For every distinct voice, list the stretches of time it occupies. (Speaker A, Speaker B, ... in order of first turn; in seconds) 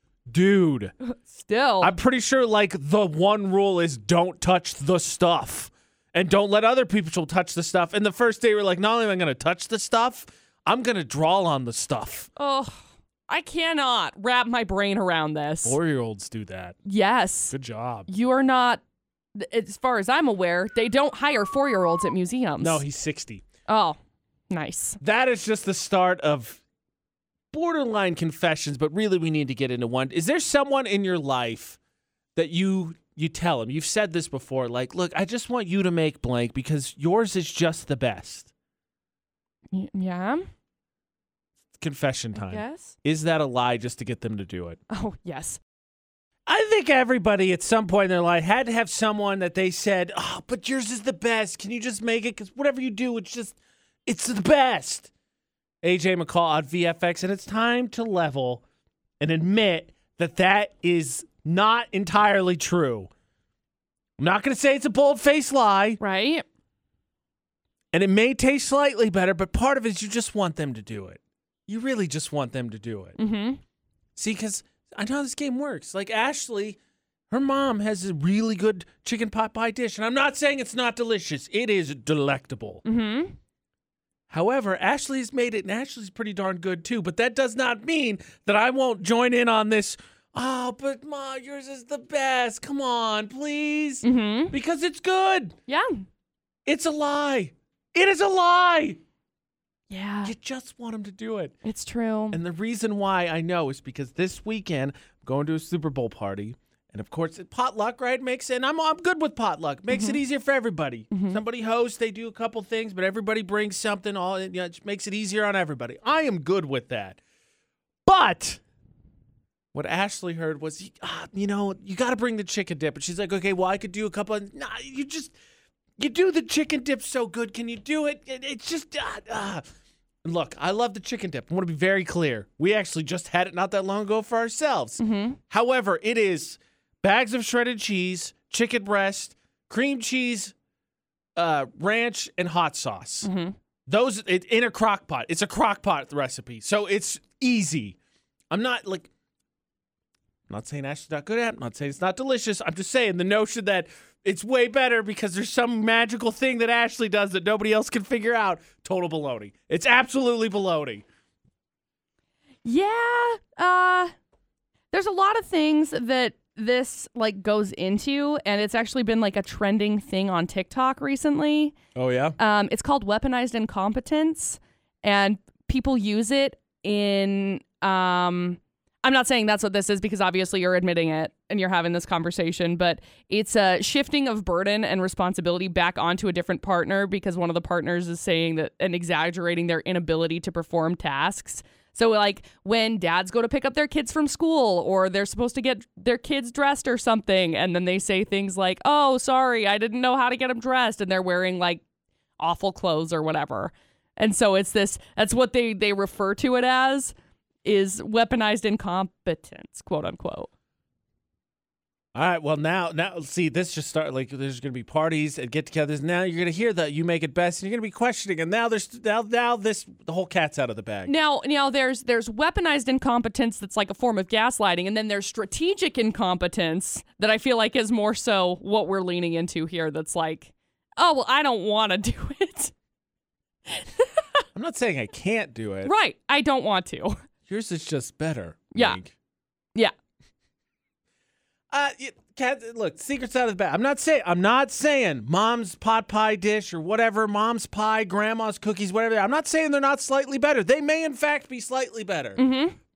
Speaker A: 0.3-0.9, 1.8-12.3, 15.6-16.8, 17.5-18.1, 22.6-23.4, 25.0-26.6, 27.5-31.8, 32.4-38.5, 41.8-44.8, 46.5-55.1, 55.8-58.6, 59.2-63.1, 64.2-66.0, 67.9-73.2, 74.2-76.8, 77.3-82.8, 84.3-95.6, 96.7-99.0, 100.2-101.5, 102.3-117.2, 118.1-118.6, 119.7-125.3, 126.0-129.6, 130.2-140.5, 141.4-143.3, 143.9-148.0, 148.5-149.1, 150.5-161.0, 172.0-172.4, 212.2-221.1, 234.6-235.9, 237.5-239.1, 241.7-252.4
Speaker B: 1.1-1.9, 12.4-15.8, 16.9-17.5, 18.1-18.8, 19.4-22.8, 23.7-24.0, 24.5-25.0, 39.7-40.5, 42.4-43.0, 44.9-45.6, 66.0-66.5, 73.2-73.6, 82.8-83.4, 94.0-94.5, 99.9-100.3, 101.7-102.4, 109.9-110.2, 111.1-111.4, 135.0-135.4, 143.2-143.6, 162.7-164.1, 164.9-171.8, 172.4-201.8, 202.4-210.5, 221.1-232.7, 233.7-234.2, 235.8-237.2, 238.7-239.0, 252.4-252.8